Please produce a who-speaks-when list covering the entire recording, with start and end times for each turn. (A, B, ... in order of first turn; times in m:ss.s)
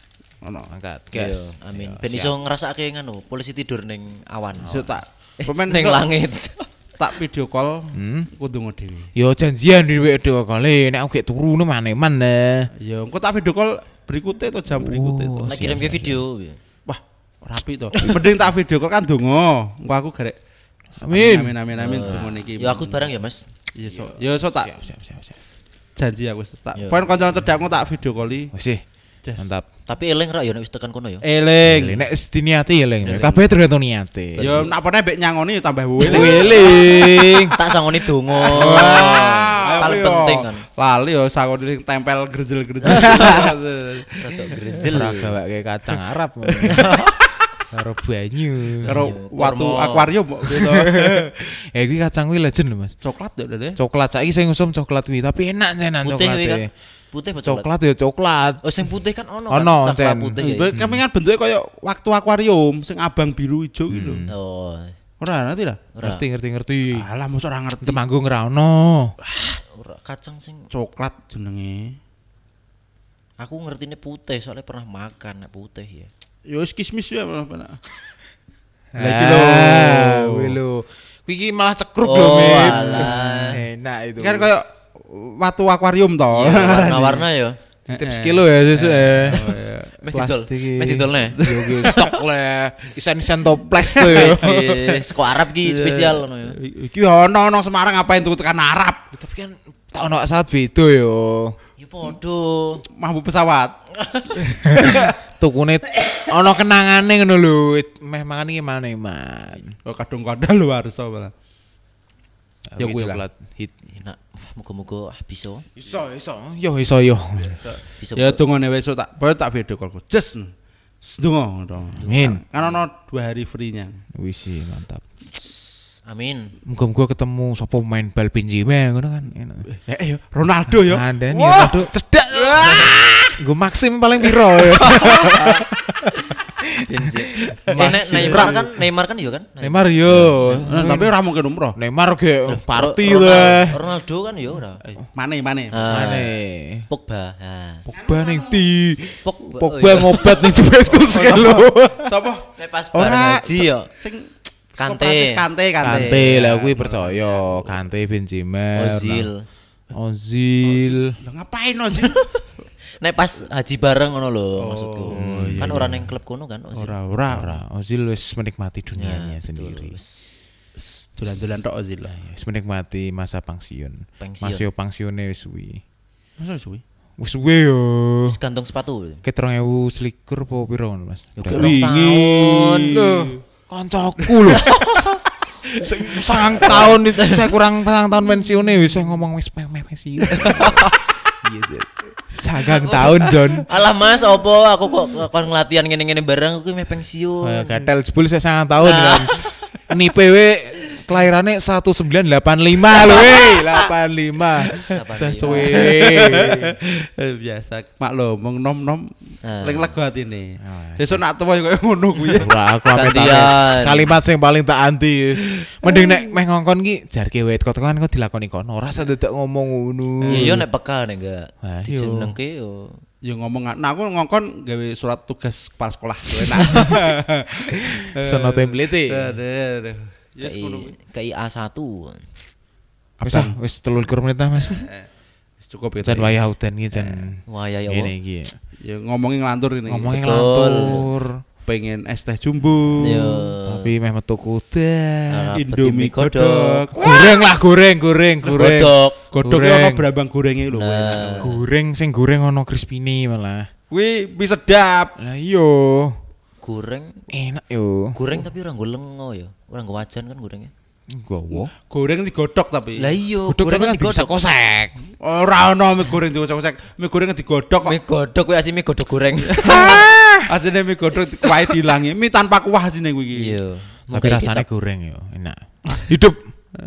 0:00.4-0:00.7 A
0:00.7-0:02.4 B
0:01.1-0:04.8 C
0:04.6-0:06.1 A
0:04.6-0:05.0 B
0:05.4-0:06.7 C
0:07.0-0:09.1 A
0:07.9-0:08.3 B
0:09.2-0:12.7 B
0:12.8-0:15.7 A
0:14.7-0:16.2 B
0:15.5-0:16.6 C
0:16.9-0:20.4 A
0:21.0-0:23.1 A
0:21.0-0:22.3 B
0:21.8-0:23.4 C
0:23.8-0:24.7 A
0:23.9-0:25.4 B
0:26.0-0:28.5 A
0:26.8-0:27.0 C
0:28.5-0:28.8 B
0:29.2-0:29.5 A
0:29.4-0:29.7 B
0:29.9-0:31.2 C
0:31.2-0:32.0 A
0:31.6-0:34.5 B
0:33.0-0:33.5 C
0:34.3-0:34.7 C
0:34.4-0:37.0 A
0:36.0-0:37.6 B
0:36.0-0:40.6 C
0:38.3-0:44.7 A
0:38.5-0:39.3 B
0:42.9-0:43.5 B
0:42.9-0:43.4 C
0:44.2-0:45.4 C
0:44.9-0:47.0 B
0:46.5-0:46.9 A
0:46.6-0:47.3 C
0:47.7-0:49.0 B
0:48.8-0:51.3 A
0:48.9-0:50.1 C
0:50.5-0:53.0 B
0:53.0-0:53.8 A
0:53.8-0:56.7 B
0:56.0-0:57.7 C
0:57.4-0:58.6 B
0:58.6-1:00.7 C
0:59.5-1:01.0 B
1:00.4-1:04.3 A
1:03.9-1:04.3 B
1:04.3-1:04.9 C
1:05.2-1:05.9 A
1:06.0-1:06.2 C
1:06.0-1:07.1 B
1:06.9-1:08.0 A
1:07.8-1:09.1 B
1:09.2-1:09.6 A
1:09.7-1:10.7 C
1:10.7-1:12.0 A
1:13.4-1:16.1 C
1:16.5-1:17.8 A
1:18.9-1:24.5 B
1:19.0-1:20.6 A
1:22.0-1:23.6 C
1:22.7-1:23.1 A
1:24.2-1:27.3 A
1:26.3-1:27.6 C
1:27.9-1:30.0 A
1:27.9-1:34.6 B
1:30.0-1:31.5 C
1:31.4-1:32.2 A
1:33.7-1:39.0 A
1:34.0-1:36.6 C
1:39.1-1:41.6 B
1:41.8-1:42.8 C
1:42.9-1:43.8 A
1:44.0-1:44.4 C
1:44.3-1:45.1 A
1:44.6-1:49.8 B
1:49.8-1:51.3 A
1:52.7-1:53.8 B
1:52.8-1:53.2 A
1:53.9-1:55.7 C
1:55.8-1:57.6 B
1:57.4-2:00.5 A
1:58.0-1:58.4 C
2:01.0-2:04.0 A
2:02.0-2:02.4 B
2:04.2-2:05.1 B
2:06.1-2:06.6 C
2:06.7-2:09.7 B
2:09.7-2:13.3 A
2:10.8-2:18.8 B
2:12.6-2:13.3 C
2:14.8-2:20.6 C
2:17.8-2:18.6 A
2:19.6-2:21.1 B
2:20.6-2:21.8 A
2:21.8-2:23.8 B
2:22.5-2:24.8 C
2:24.8-2:25.8 A
2:25.7-2:26.4 C
2:25.8-2:26.9 B
2:26.9-2:27.9 C
2:27.9-2:28.6 A
2:27.9-2:32.1 B
2:29.2-2:30.5 C
2:31.1-2:37.6 A
2:32.6-2:33.9 C
2:34.8-2:36.6 C
2:35.8-2:39.3 B
2:38.8-2:39.5 C
2:39.9-2:41.1 B
2:40.6-2:42.2 A
2:42.0-2:42.4 C
2:43.0-2:46.9 C
2:44.6-2:45.9 A
2:45.1-2:46.1 B
2:46.7-2:47.6 A
2:47.3-2:50.0 B
2:49.0-2:50.3 C
2:50.8-2:52.2 A
2:52.1-2:55.8 B
2:54.2-2:54.7 C
2:56.4-2:56.8 A
2:57.2-2:58.4 B
2:58.2-2:59.2 C
2:59.2-3:01.8 B
3:01.4-3:03.0 C
3:01.5-3:03.4 A
3:02.9-3:05.2 B
3:04.2-3:04.5 A
3:04.5-3:07.5 C
3:05.7-3:13.7 B
3:06.6-3:06.9 A
3:10.3-3:11.0 C
3:12.6-3:17.9 C
3:17.4-3:26.8 B
3:18.8-3:19.5 C
3:23.0-3:23.4 C
3:24.9-3:25.9 C
3:25.5-3:32.5 A
3:29.4-3:30.0 C
3:30.6-3:31.2 B
3:32.4-3:40.7 B
3:32.9-3:34.2 C
3:35.6-3:36.2 A
3:40.2-3:43.0 C
3:40.3-3:40.6 A
3:41.6-3:42.3 B
3:43.2-3:50.9 A
3:46.7-3:47.1 B
3:47.8-3:49.4 B
3:50.4-3:52.3 C
3:53.2-3:53.6 A
3:53.2-3:54.9 B
3:54.6-3:55.1 A
3:55.6-3:56.4 A
3:56.0-3:58.6 B
3:57.5-3:58.1 C
3:58.8-4:00.3 A
3:59.9-4:01.4 B
4:00.1-4:01.1 C
4:01.6-4:03.4 A
4:03.0-4:03.9 C
4:03.2-4:05.6 B
4:05.3-4:06.8 C
4:05.6-4:07.3 A
4:06.9-4:10.1 B
4:08.4-4:09.2 C
4:08.5-4:11.5 A
4:10.7-4:11.6 C
4:11.4-4:13.7 B
4:13.9-4:15.2 A
4:15.2-4:16.2 B
4:16.6-4:17.3 C
4:17.3-4:18.4 B
4:18.2-4:20.7 C
4:21.1-4:21.7 B
4:21.5-4:23.1 A
4:23.0-4:24.3 C
4:23.4-4:25.0 B
4:25.2-4:28.0 A
4:27.8-4:30.1 C
4:29.5-4:33.6 A
4:29.6-4:30.4 B
4:33.4-4:34.7 C
4:34.1-4:36.4 B